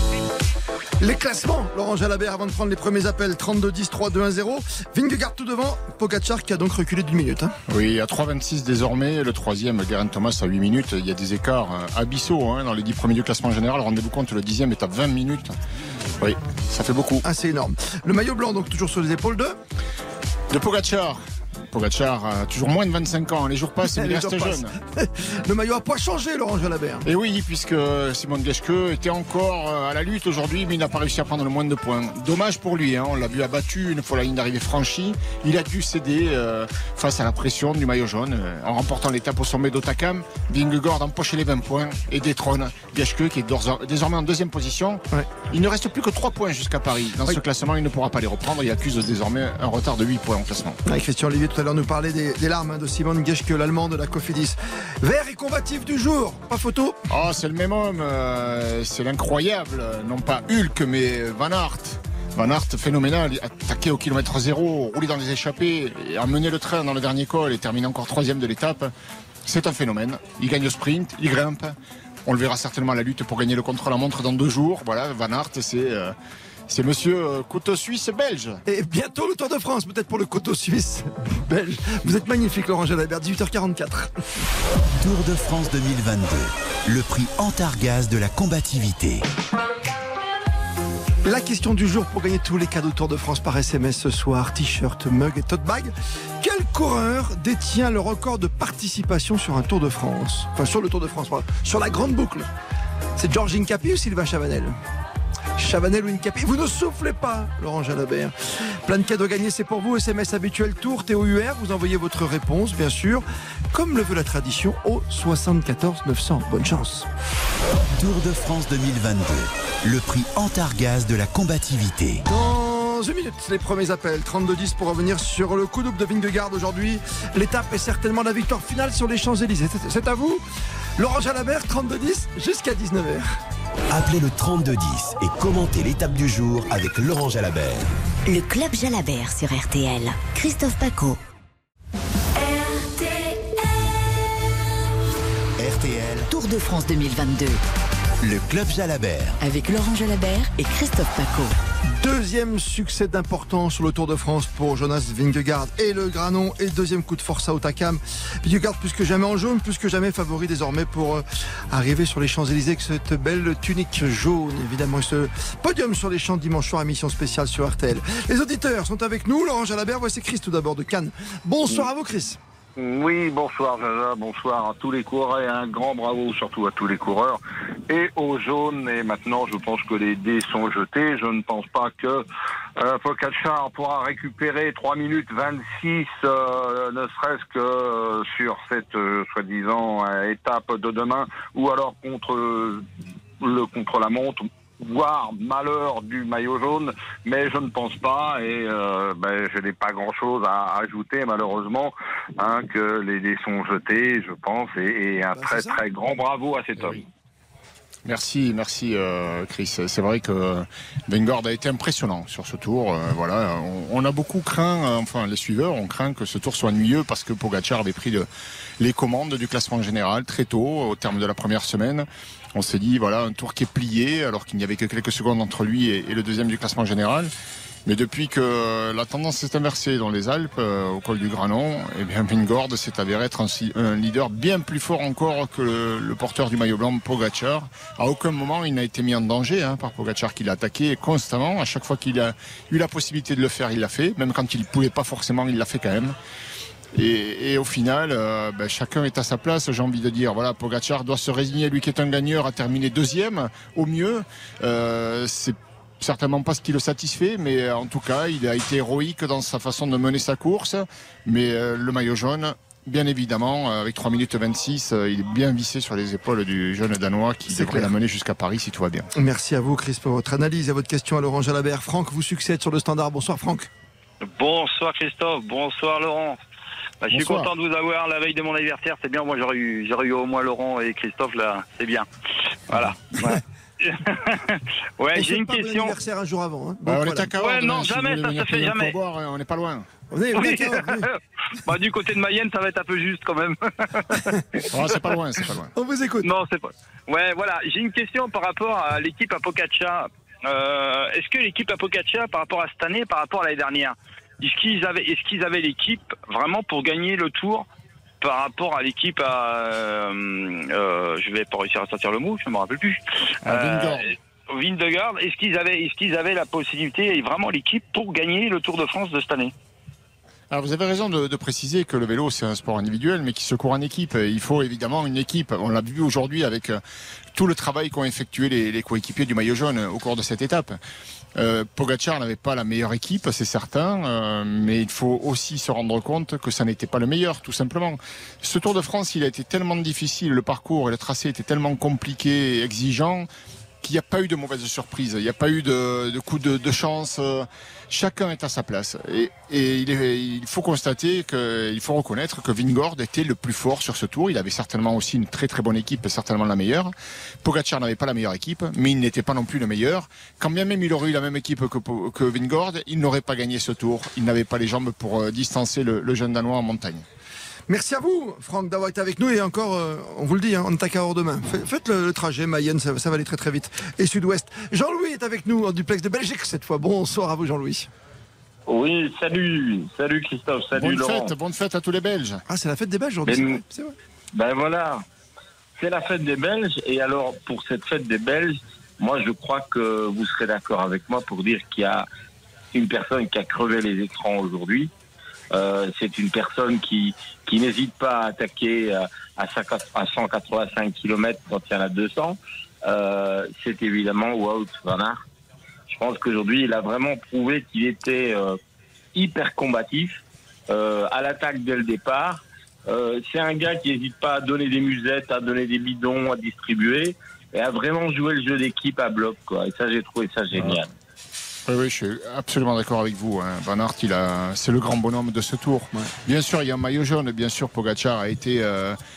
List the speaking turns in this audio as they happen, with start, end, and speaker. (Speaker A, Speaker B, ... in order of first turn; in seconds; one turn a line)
Speaker A: 1.0-7.5
Speaker B: 7.7-15.5
Speaker B: 16.2-17.2
Speaker A: 17.2-19.6
Speaker B: 20.5-24.7
Speaker A: 23.8-27.1
Speaker B: 27.1-50.8
Speaker A: 50.8-57.0
Speaker B: 57.1-68.9
Speaker B: 69.4-71.7
Speaker B: 72.2-76.1
Speaker B: 76.7-78.6
Speaker A: 78.7-84.1
Speaker C: 85.0-89.2
Speaker A: 91.2-102.5
Speaker A: 103.2-104.8
Speaker A: 105.5-117.1
Speaker C: 118.0-122.2
Speaker A: 122.2-130.4
Speaker A: 131.0-133.3
Speaker C: 133.9-137.9
Speaker D: 138.2-141.2
Speaker D: 142.3-143.5
Speaker C: 145.6-146.3
Speaker D: 146.3-147.6
Speaker C: 148.2-149.4
Speaker D: 149.4-151.5
Speaker A: 151.9-172.4
Speaker E: 172.8-182.2
Speaker E: 182.8-192.8
Speaker E: 193.4-207.0
Speaker A: 205.3-205.8
Speaker B: 208.0-218.3
Speaker B: 218.8-227.3
Speaker B: 227.8-246.1
Speaker B: 246.9-269.1
Speaker A: 267.5-267.9
Speaker A: 269.1-273.7
Speaker F: 274.2-276.4
Speaker F: 277.0-282.1
Speaker B: 277.1-277.5
Speaker F: 282.7-285.9
Speaker A: 285.1-287.3
Speaker B: 286.9-289.9
Speaker F: 287.4-288.9
Speaker A: 290.1-291.1
Speaker F: 290.3-294.4
Speaker B: 294.7-295.7
Speaker A: 295.7-296.3
Speaker F: 296.2-307.6
Speaker F: 308.2-319.5
Speaker B: 313.4-314.1
Speaker B: 320.5-326.8
Speaker B: 327.3-330.8
Speaker B: 331.4-343.3
Speaker B: 343.8-356.9
Speaker B: 357.4-367.0
Speaker A: 367.7-377.9
Speaker G: 378.7-381.3
Speaker B: 380.7-382.4
Speaker A: 382.5-383.9
Speaker G: 383.3-383.6
Speaker G: 384.3-385.0
Speaker G: 385.8-392.1
Speaker G: 392.7-394.9
Speaker G: 395.5-405.2
Speaker G: 405.9-408.6
Speaker G: 409.1-420.9
Speaker B: 421.7-429.0